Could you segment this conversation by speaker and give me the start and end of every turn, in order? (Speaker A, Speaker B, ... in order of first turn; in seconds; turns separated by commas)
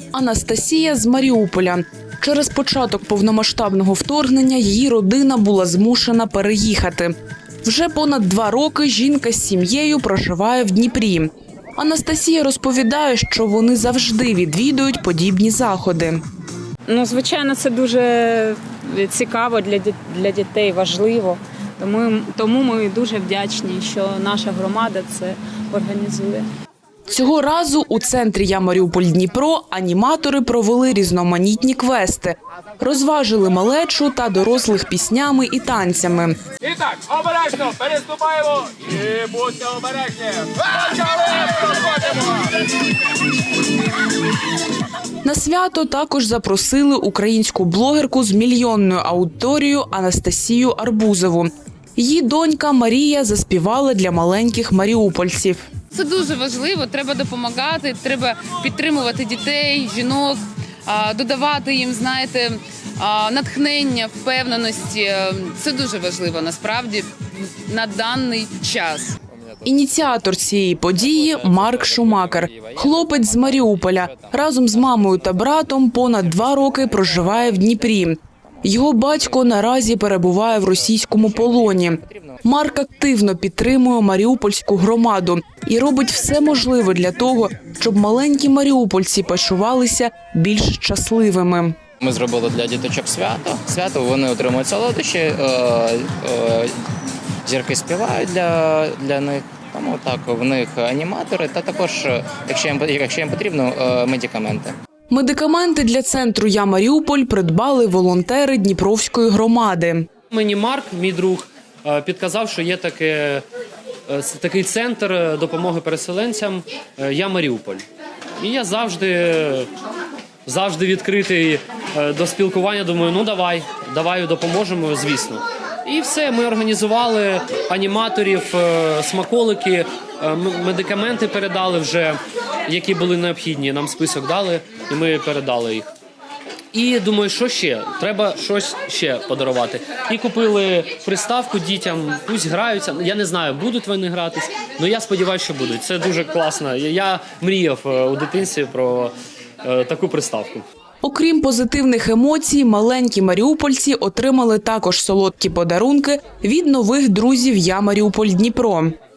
Speaker A: 0.1-16.2, Speaker B: 16.9-26.5, Speaker A: 27.1-36.4, Speaker C: 36.7-42.3, Speaker A: 45.2-55.7, Speaker D: 55.9-69.2, Speaker E: 69.3-82.5, Speaker A: 69.7-91.8, Speaker E: 92.0-96.7, Speaker E: 97.5-104.8, Speaker A: 105.1-110.1, Speaker F: 110.3-113.5, Speaker F: 114.1-117.8, Speaker F: 118.4-119.7, Speaker F: 120.5-135.9, Speaker F: 136.7-150.7, Speaker A: 151.0-158.9